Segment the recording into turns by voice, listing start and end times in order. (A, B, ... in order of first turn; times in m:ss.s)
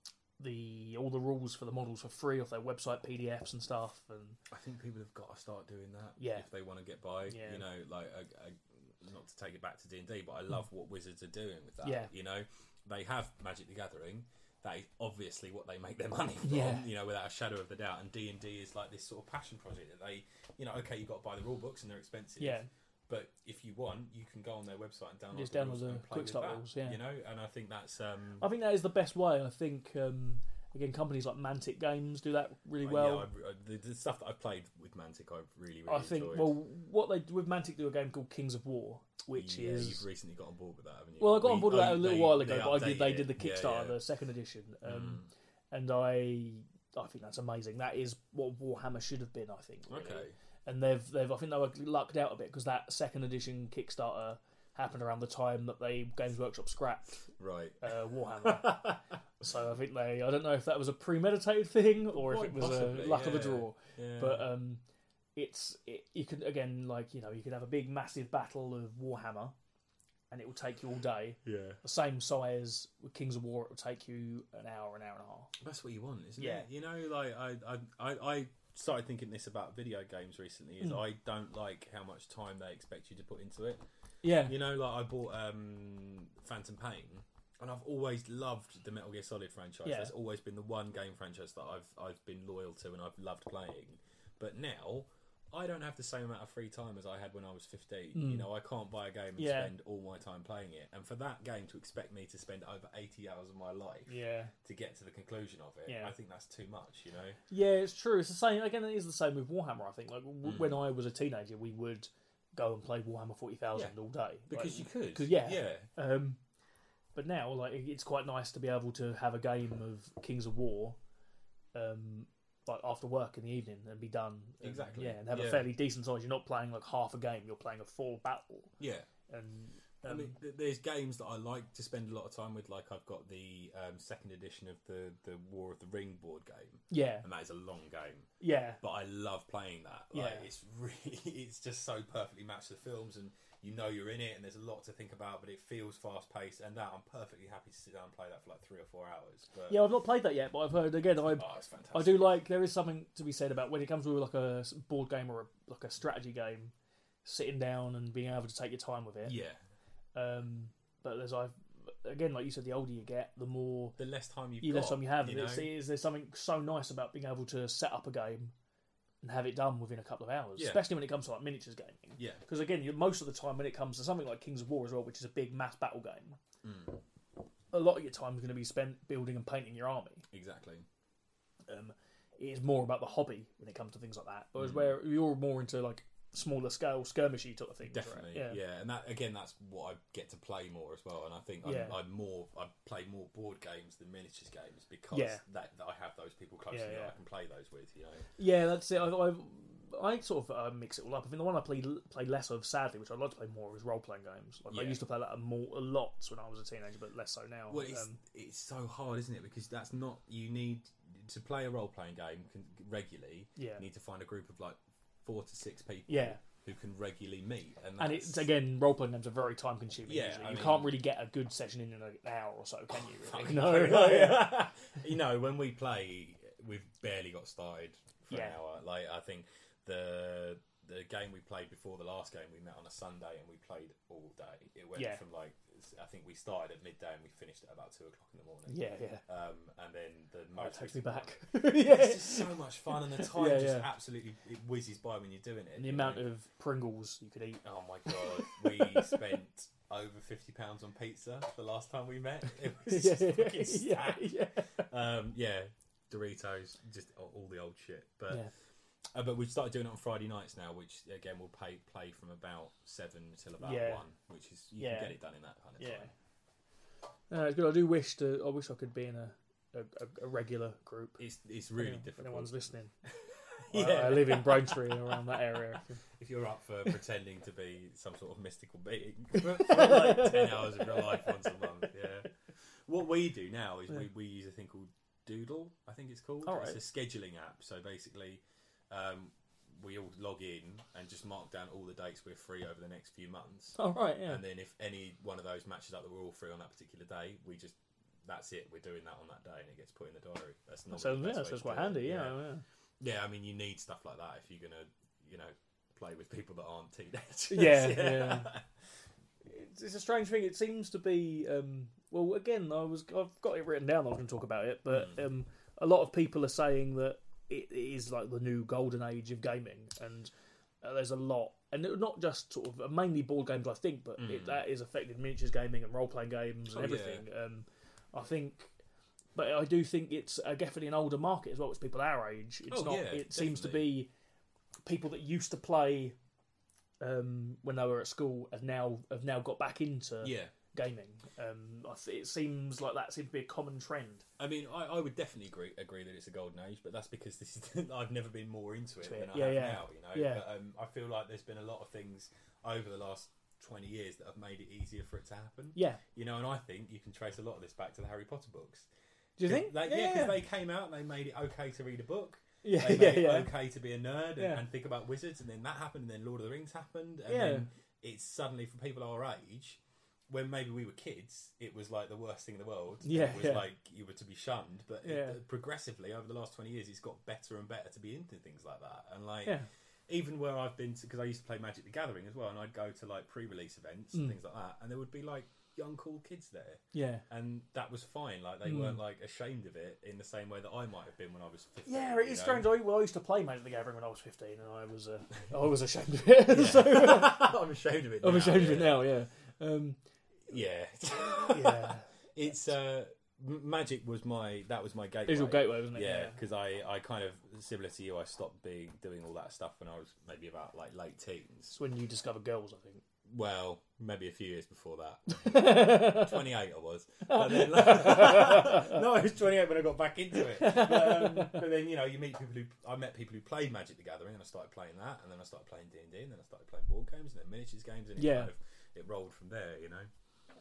0:00.4-0:04.4 A
0:04.5-0:28.5 B
0:06.2-0:06.5 A
0:07.3-0:07.6 A
0:11.8-0:12.1 A
0:16.4-0:16.9 A
0:22.4-0:22.7 A
0:25.3-0:27.0 A
0:28.4-0:33.3 A
0:32.8-0:36.6 B
0:35.9-0:40.0 A
0:39.3-0:44.0 B
0:41.2-0:57.3 A
0:44.8-0:45.3 B
0:49.9-0:50.4 B
0:57.4-0:59.2 B
0:57.8-0:58.9 A
0:59.4-1:04.8 A
1:02.2-1:04.5 B
1:05.4-1:09.5 A
1:10.3-1:15.5 A
1:11.4-1:11.8 B
1:15.6-1:23.8 B
1:16.4-1:16.6 A
1:24.2-1:24.5 A
1:24.4-1:47.4 B
1:29.8-1:30.1 A
1:38.1-1:38.5 A
1:39.4-1:39.7 A
1:44.1-1:44.5 A
1:45.9-1:46.1 A
1:47.5-1:56.4 A
1:50.4-1:50.8 B
1:54.5-1:55.9 B
1:57.2-2:01.0 A
2:01.7-2:08.7 A
2:04.6-2:05.7 B
2:08.8-2:09.1 B
2:09.3-2:10.4 A
2:10.0-2:18.3 B
2:16.9-2:17.2 A
2:18.4-2:18.8 A
2:18.8-2:29.9 B
2:20.1-2:20.5 A
2:29.7-2:36.7 A
2:31.2-2:32.4 B
2:37.2-2:39.3 A
2:39.2-2:39.6 B
2:40.2-2:44.0 A
2:44.0-2:45.7 B
2:44.6-2:48.5 A
2:49.2-2:56.4 A
2:50.6-2:50.8 B
2:52.2-2:52.4 B
2:56.6-2:57.0 B
2:57.7-3:00.2 A
3:00.3-3:00.8 B
3:01.7-3:08.6 A
3:04.6-3:05.0 B
3:07.9-3:18.3 B
3:11.6-3:12.0 A
3:15.1-3:15.4 A
3:16.7-3:17.2 A
3:18.4-3:28.2 A
3:24.7-3:25.0 B
3:27.7-3:38.5 B
3:33.6-3:33.8 A
3:36.1-3:36.4 A
3:38.0-3:45.0 A
3:40.0-3:41.0 B
3:42.9-4:06.2 B
3:48.3-3:48.6 A
3:55.0-3:55.2 A
3:58.7-3:59.2 A
4:00.6-4:03.9 A
4:05.8-4:09.2 A
4:07.6-4:18.5 B
4:12.8-4:14.7 A
4:19.1-4:26.1 B
4:23.6-4:24.0 A
4:24.8-4:25.2 A
4:25.8-4:26.1 A
4:27.3-4:31.2 A
4:31.2-5:02.4 B
4:31.8-4:32.9 A
4:33.6-4:36.0 A
4:39.4-4:41.9 A
4:46.4-4:46.8 A
4:53.8-4:54.4 A
5:00.9-5:02.6 A
5:03.0-5:08.7 B
5:07.5-5:08.5 A
5:09.4-5:20.3 A
5:14.9-5:15.2 B
5:20.8-5:28.8 A
5:24.2-5:24.6 B
5:26.7-5:27.2 B
5:29.3-5:34.1 A
5:32.7-5:33.9 B
5:34.8-5:36.2 A
5:37.0-5:44.2 A
5:40.2-5:40.5 B
5:44.4-5:58.9 B
5:49.0-5:50.4 A
5:55.8-5:56.0 A
5:59.4-6:00.4 A
5:59.4-6:32.7 B
6:02.6-6:03.5 A
6:07.3-6:07.7 A
6:13.0-6:13.6 A
6:15.0-6:15.4 A
6:26.9-6:27.2 A
6:28.6-6:29.0 A
6:31.8-6:37.5 A
6:36.5-6:39.0 B
6:38.2-6:40.0 A
6:40.5-6:51.8 B
6:41.4-6:42.1 A
6:45.3-6:46.4 A
6:51.7-6:53.0 A
6:53.2-7:10.1 B
6:55.4-6:56.4 A
6:57.3-6:59.0 A
7:00.4-7:01.6 A
7:08.2-7:08.5 A